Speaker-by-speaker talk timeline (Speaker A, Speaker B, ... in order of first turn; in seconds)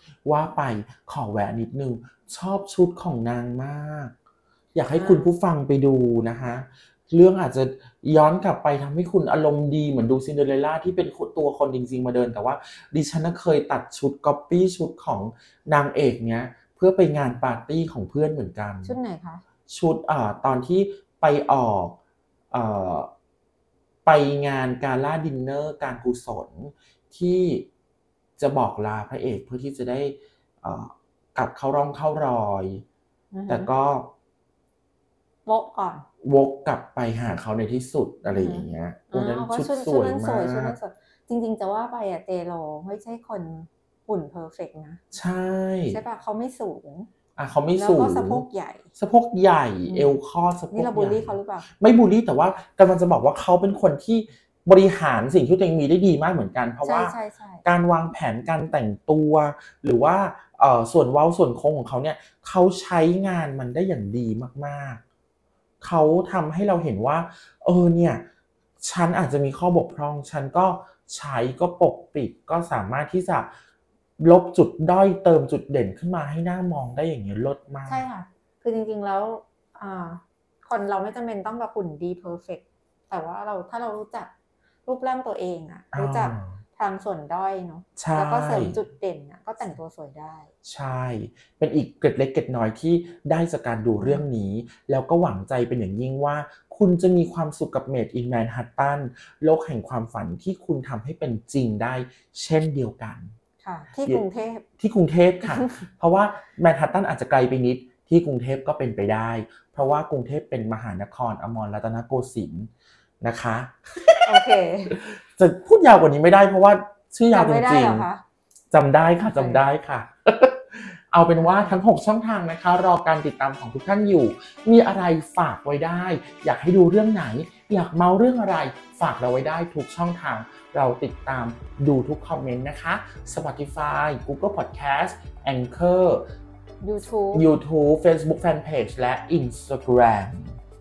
Speaker A: 0.2-4.1, 4.8-19.0, 19.7-22.0, 22.5-23.1, 24.1-27.7, 28.4-32.9, 33.5-34.1, 36.2-40.8, 45.1-46.0, 47.4-48.5, 49.0-65.0, 65.8-68.2, 68.8-73.5, 74.2-78.0, 85.9-86.6, 88.0-88.8, 90.6-103.3, 104.8-118.1, 118.7-136.2, 137.3-140.6
Speaker B: 4.9-5.3, 18.8-19.4, 33.3-33.7, 35.5-36.1, 38.3-45.0, 45.9-47.1, 47.8-48.9, 49.9-50.2, 50.7-51.7, 56.8-57.6, 77.9-84.3, 84.9-90.5, 94.0-94.2, 103.6-104.7, 105.4-105.8, 114.2-115.0, 117.3-118.2, 119.3-119.6, 121.4-121.8, 136.8-137.5